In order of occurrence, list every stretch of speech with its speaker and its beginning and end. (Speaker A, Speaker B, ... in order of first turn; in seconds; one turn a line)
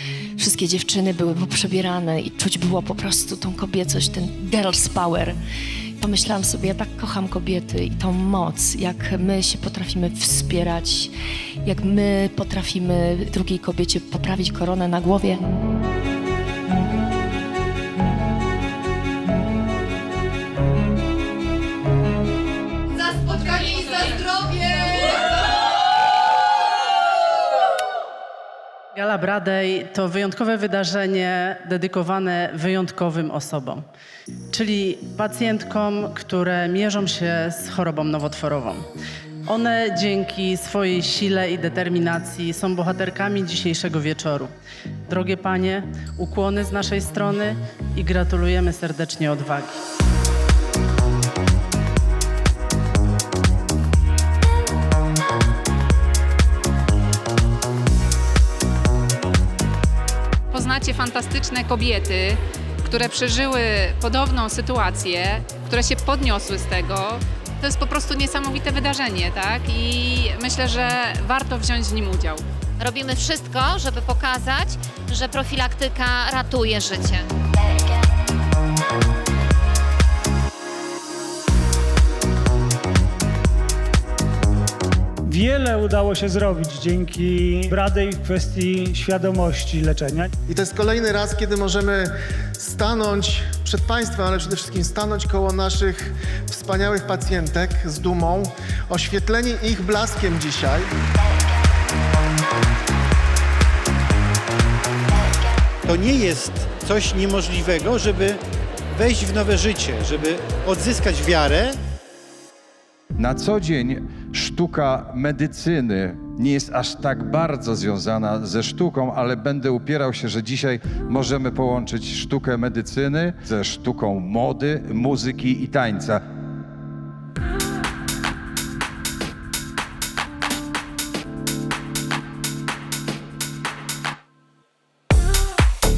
Speaker A: 0.4-5.4
Speaker A: 6.0-15.5
Speaker B: 29.0-33.8
Speaker B: 34.6-38.8
Speaker B: 39.5-44.5
Speaker B: 45.1-47.5
Speaker B: 48.0-49.7
Speaker C: 60.5-72.4
Speaker D: 72.8-77.3
Speaker E: 85.3-90.3
Speaker F: 90.5-100.9
Speaker G: 105.9-108.4
Speaker G: 109.0-111.8
Speaker H: 113.2-126.2